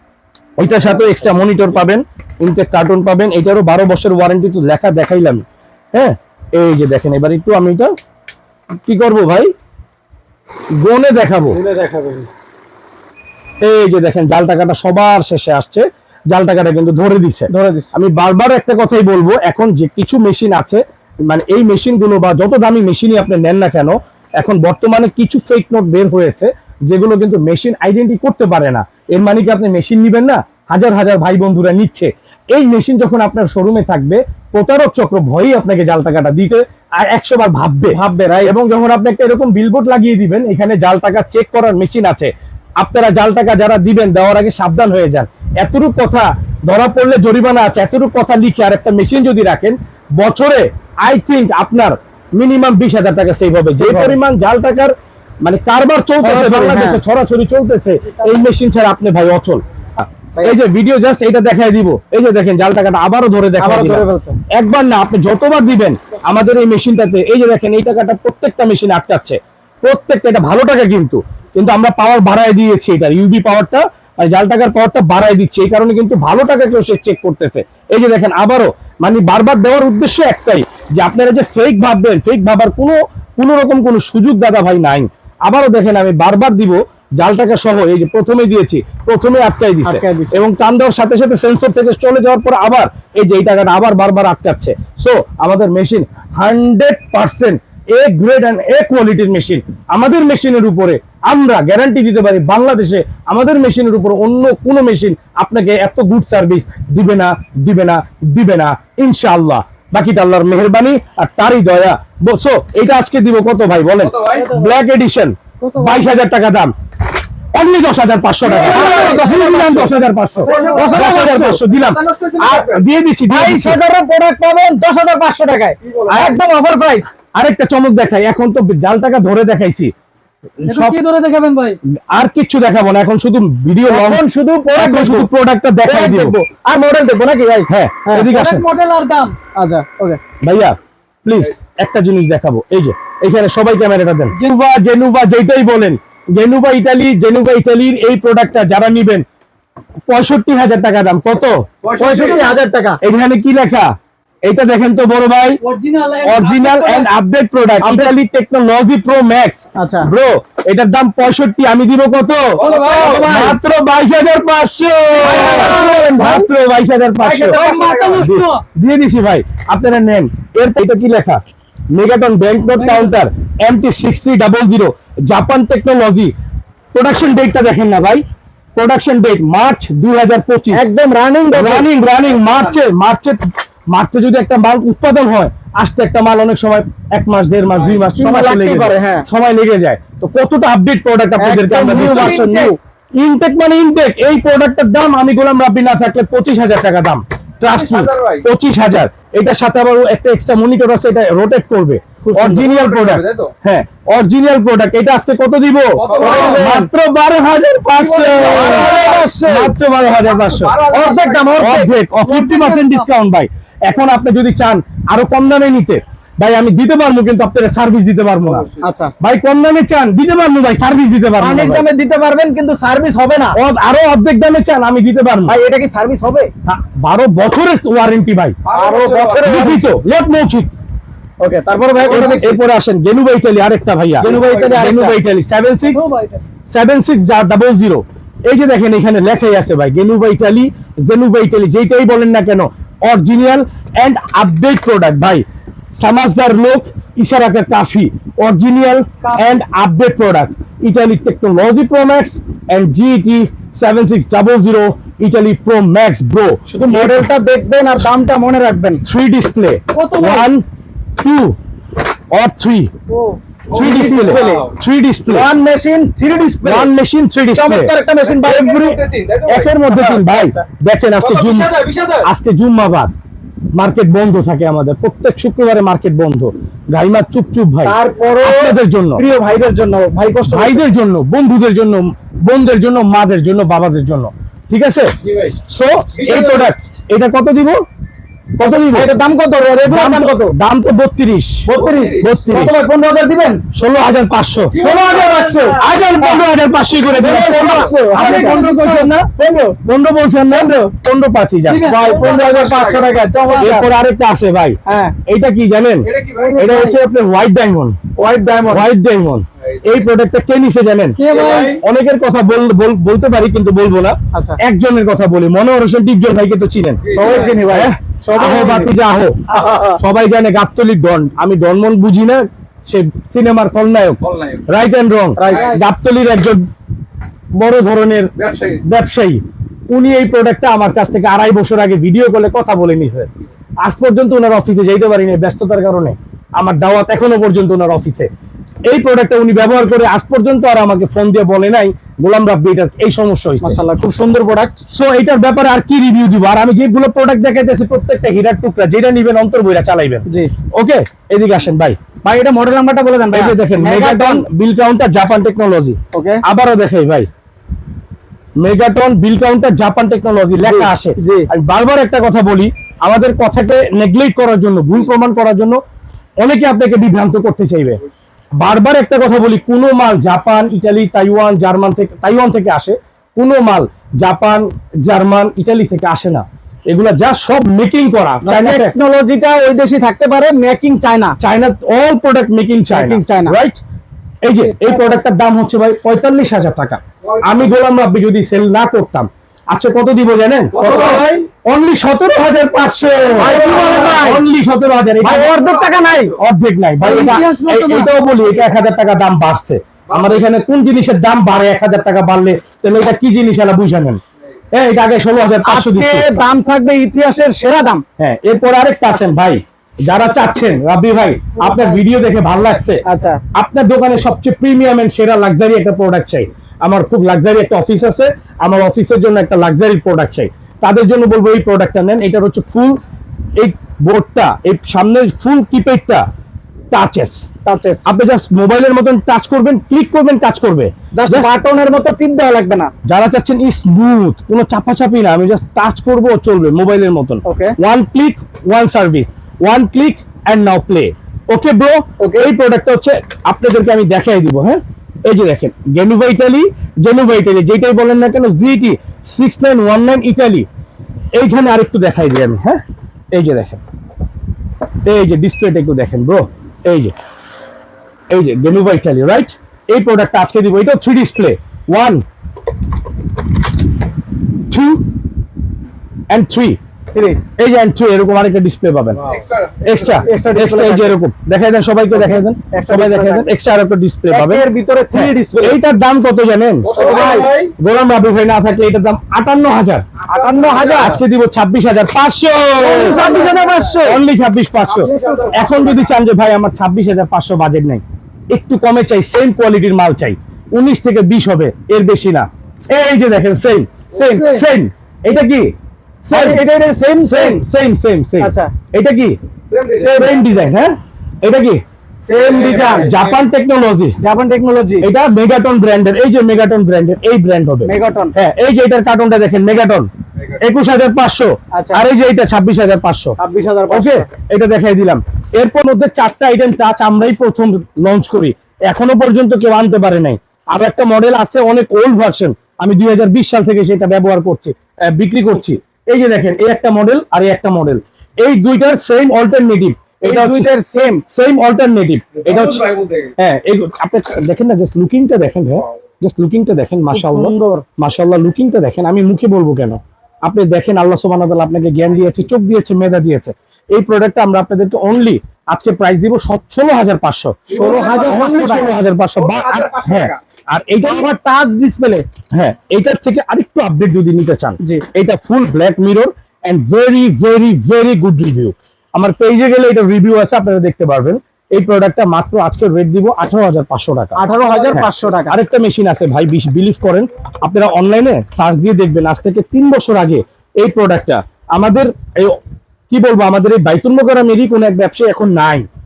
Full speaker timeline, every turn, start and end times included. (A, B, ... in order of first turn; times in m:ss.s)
0:00.6-0:05.4 A
0:05.9-0:07.9 A
0:08.8-0:09.5 A
0:10.8-0:11.6 A
0:11.5-0:12.3 B
0:13.6-1:56.7 A
0:17.5-0:17.9 B
0:37.9-0:38.5 B
0:53.7-0:54.2 B
0:56.2-0:57.0 B
1:03.6-1:04.4 B
1:29.8-1:30.4 B
1:54.0-1:54.5 C
1:55.6-1:56.1 D
1:57.5-2:03.8 A
1:58.5-1:59.7 D
1:58.5-2:01.6 B
2:00.4-2:01.2 D
2:00.5-2:02.8 C
2:03.3-2:07.1 B
2:05.8-2:06.4 C
2:07.4-2:09.9 A
2:10.6-2:11.0 A
2:10.7-2:11.8 D
2:12.1-2:14.2 A
2:13.9-2:15.3 B
2:14.8-2:16.4 A
2:15.8-2:18.3 B
2:17.7-2:18.6 A
2:18.3-2:19.4 D
2:19.6-2:20.2 B
2:20.4-2:29.2 A
2:30.1-2:31.6 A
2:31.8-2:32.5 C
2:32.0-2:33.0 B
2:33.0-2:33.9 A
2:34.4-2:35.6 A
2:35.6-2:37.1 D
2:36.2-2:47.6 A
2:39.8-2:40.1 B
2:42.6-2:43.3 C
2:42.6-2:43.6 B
2:42.6-2:43.4 D
2:45.2-2:46.5 B
2:45.2-2:46.1 D
2:47.2-2:48.2 C
2:47.4-2:48.6 D
2:47.7-2:48.2 B
2:48.2-2:51.4 A
2:51.9-2:56.3 A
2:52.8-2:53.2 D
2:56.9-2:58.2 A
2:58.8-3:00.9 A
3:00.7-3:01.9 B
3:01.5-3:12.6 A
3:02.2-3:02.7 C
3:07.8-3:08.0 C
3:08.2-3:09.2 B
3:11.4-3:12.8 B
3:11.9-3:12.7 C
3:13.2-3:31.0 A
3:17.6-3:18.5 C
3:22.2-3:22.7 B
3:22.5-3:23.5 C
3:26.0-3:26.6 C
3:26.1-3:26.9 B
3:26.2-3:26.6 D
3:28.0-3:29.7 B
3:28.3-3:29.3 C
3:30.2-3:31.7 C
3:30.9-3:31.9 B
3:31.5-3:38.6 A
3:32.2-3:33.0 D
3:38.4-3:38.9 C
3:38.8-3:39.1 B
3:39.2-3:41.9 A
3:41.4-3:43.6 B
3:43.6-3:45.6 A
3:45.5-3:46.5 B
3:46.6-3:48.6 A
3:48.6-3:49.6 C
3:48.7-3:49.8 B
3:49.4-3:50.7 A
3:51.4-3:52.6 B
3:52.1-3:56.1 A
3:54.2-3:55.2 B
3:54.2-3:54.8 C
3:55.8-3:56.4 D
3:56.7-4:05.4 A
4:06.0-4:17.3 A
4:16.7-4:19.0 B
4:19.0-4:20.6 A
4:19.9-4:20.5 D
4:21.2-4:21.6 A
4:22.3-4:22.9 A
4:23.1-4:23.4 D
4:23.7-4:24.7 B
4:23.7-4:24.7 C
4:23.7-4:25.5 A
4:25.2-4:26.9 B
4:26.6-4:28.8 A
4:27.5-4:29.0 B
4:28.3-4:29.7 C
4:29.5-4:33.1 A
4:29.9-4:30.6 B
4:31.2-4:32.3 C
4:33.7-4:39.2 A
4:37.8-4:40.9 B
4:40.5-4:45.1 A
4:45.2-4:45.6 C
4:45.7-4:47.8 A
4:46.1-4:46.7 C
4:48.6-4:49.1 A
4:48.9-4:50.5 B
4:49.8-4:52.8 A
4:51.6-4:53.6 B
4:51.7-4:52.3 C
4:53.7-4:54.8 A
4:54.7-4:55.8 C
4:54.8-4:56.4 B
4:55.8-4:59.3 A
4:57.1-4:58.6 B
4:58.1-4:59.1 D
4:59.3-4:59.8 B
4:59.8-5:02.0 A
5:00.5-5:00.9 B
5:01.7-5:02.2 D
5:01.8-5:03.9 B
5:02.0-5:03.1 C
5:03.4-5:03.8 D
5:03.6-5:08.0 A
5:04.9-5:05.2 B
5:06.0-5:06.6 C
5:06.4-5:07.0 D
5:08.2-5:08.9 B
5:08.7-5:26.6 A
5:11.2-5:11.8 D
5:11.3-5:11.8 C
5:14.3-5:14.6 B
5:17.0-5:17.6 C
5:17.1-5:18.9 B
5:17.2-5:17.4 D
5:19.5-5:20.0 B
5:24.2-5:24.6 C
5:25.4-5:25.7 B
5:25.4-5:25.8 D
5:27.6-5:28.3 A
5:28.4-5:28.8 C
5:28.8-5:33.3 A
5:33.8-5:38.3 A
5:38.9-5:43.8 A
5:43.6-5:44.8 B
5:44.9-5:52.0 A
5:50.3-5:50.5 B
5:52.2-5:54.4 B
5:53.3-5:57.3 A
5:56.1-5:56.4 B
5:58.6-6:05.8 A
6:00.6-6:01.5 B
6:06.4-6:08.0 A
6:08.6-6:19.0 A
6:18.4-6:21.4 B
6:21.4-6:23.8 A
6:22.9-6:23.6 B
6:24.4-6:35.5 A
6:24.6-6:25.0 D
6:27.2-6:27.7 C
6:30.7-6:31.5 C
6:30.8-6:31.4 B
6:33.3-6:34.4 B
6:33.4-6:34.2 C
6:35.2-6:36.4 B
6:35.3-6:36.3 C
6:36.4-6:44.2 A
6:37.0-6:38.1 D
6:40.1-6:40.4 C
6:44.7-6:46.4 A
6:45.6-6:48.0 B
6:48.2-6:53.0 A
6:51.6-6:52.0 D
6:53.0-6:53.4 B
6:53.6-7:03.0 A
7:03.6-7:06.2 A
7:06.9-7:07.4 A
7:07.6-7:08.1 B
7:08.1-7:11.5 A
7:11.1-7:12.9 B
7:13.1-7:30.7 A
7:17.4-7:17.8 B
7:22.2-7:22.5 B
7:31.4-7:32.8 A
7:33.3-7:33.8 A
7:35.0-7:37.1 A
7:38.3-7:42.2 A
7:44.7-7:45.1 A
7:46.3-7:46.8 A
7:47.1-7:47.4 B
7:47.6-7:49.3 A
7:49.2-7:50.3 C
7:49.8-8:00.1 A
7:50.2-7:51.2 B
7:52.1-7:53.5 B
7:54.3-7:55.8 B
7:56.8-7:57.7 C
7:56.9-7:57.7 B
8:00.3-8:01.2 C
8:00.3-8:01.2 B
8:00.7-8:03.4 A
8:02.8-8:04.2 B
8:03.1-8:03.9 C
8:04.0-8:15.7 A
8:04.9-8:06.1 C
8:05.1-8:05.6 D
8:14.1-8:14.5 B
8:14.1-8:14.6 D
8:16.2-8:16.6 A
8:16.3-8:17.6 B
8:17.2-8:19.4 A
8:18.4-8:18.7 B
8:19.7-8:20.4 C
8:20.0-8:20.4 B
8:20.0-8:21.8 A
8:22.2-8:23.2 B
8:22.3-8:23.3 C
8:22.4-8:24.2 A
8:24.2-8:25.1 B
8:25.0-8:30.1 A
8:27.9-8:28.3 B
8:30.6-8:33.4 A
8:31.7-8:32.0 B
8:33.4-8:34.3 B
8:33.9-8:52.9 A
8:50.2-8:51.2 B
8:52.4-8:53.3 C
8:53.4-9:11.3 A
8:57.1-8:57.8 B
9:07.7-9:08.9 C
9:07.7-9:08.9 B
9:09.4-9:10.4 C
9:11.0-9:12.3 B
9:12.5-9:32.6 A
9:24.4-9:25.6 B
9:33.1-9:35.9 A